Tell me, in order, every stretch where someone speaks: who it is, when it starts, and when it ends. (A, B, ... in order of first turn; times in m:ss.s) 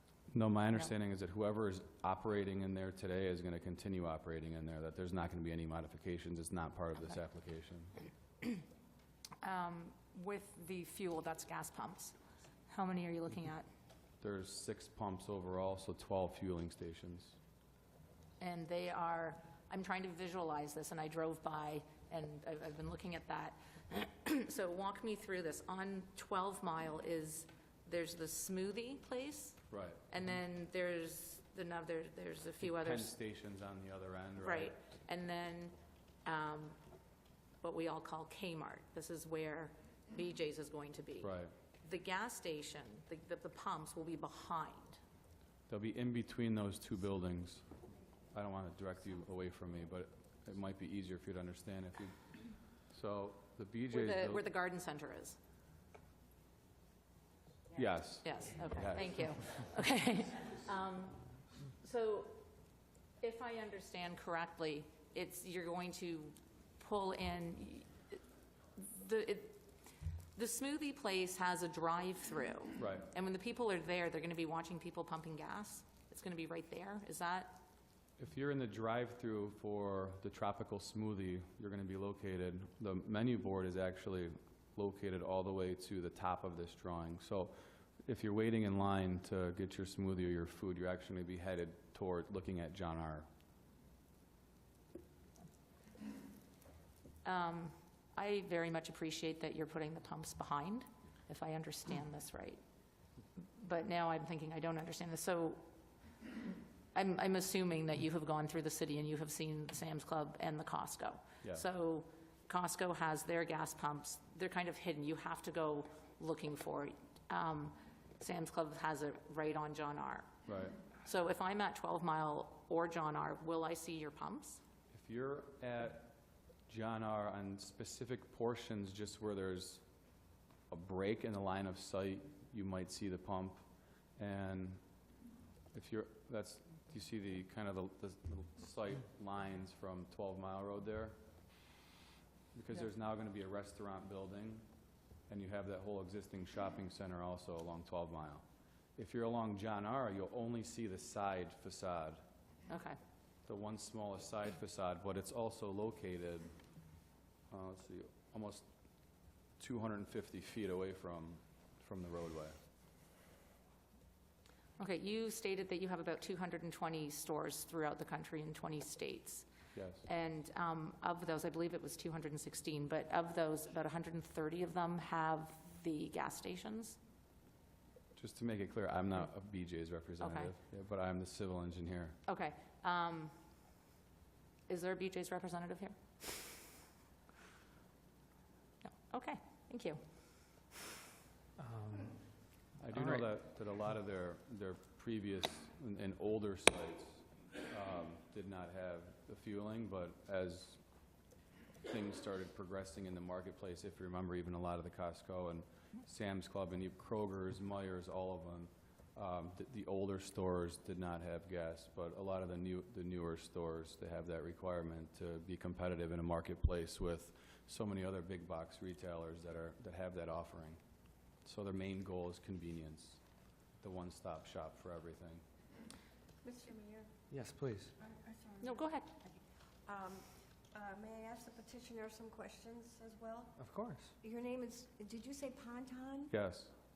0:00.3-0:07.9 A
0:09.4-0:12.2 B
0:12.7-0:13.7 B
0:14.2-0:17.4 A
0:18.4-0:33.1 B
0:29.7-0:30.0 A
0:32.6-0:34.7 A
0:34.4-0:36.8 B
0:37.6-0:45.0 B
0:41.2-0:41.5 A
0:45.7-0:47.7 A
0:48.3-0:52.2 A
0:52.9-0:54.5 A
0:53.9-0:55.4 B
0:57.7-0:59.2 A
0:58.2-1:01.2 B
1:01.8-1:02.4 B
1:03.2-1:08.2 B
1:08.8-1:09.6 B
1:10.4-1:17.6 B
1:12.8-1:13.1 A
1:18.2-1:33.3 A
1:37.2-1:42.6 B
1:43.4-1:45.6 B
1:46.3-2:00.3 B
2:00.5-2:00.8 A
2:01.0-2:04.6 B
2:04.9-2:06.1 A
2:06.7-2:09.8 A
2:10.7-2:13.6 A
2:14.2-2:14.8 A
2:15.7-2:21.2 A
2:22.5-2:24.6 A
2:25.3-2:28.4 A
2:29.0-2:32.2 A
2:32.7-2:33.0 B
2:33.5-2:36.5 A
2:37.5-2:38.6 A
2:39.6-2:42.6 A
2:44.8-2:49.5 B
2:49.8-2:50.1 A
2:50.0-2:57.0 B
2:58.2-3:02.2 A
3:00.2-3:00.5 B
3:02.3-3:03.3 B
3:04.7-3:06.5 B
3:08.8-3:10.0 B
3:11.6-3:12.2 C
3:12.8-3:20.8 A
3:12.9-3:13.3 C
3:21.9-3:40.8 A
3:41.4-3:43.2 A
3:43.8-3:45.4 A
3:46.4-3:47.1 D
3:47.3-3:47.9 C
3:48.0-3:48.8 D
3:48.6-3:49.1 B
3:49.9-3:53.6 D
3:53.6-3:54.1 C
3:54.2-3:56.3 D
3:56.3-3:56.7 A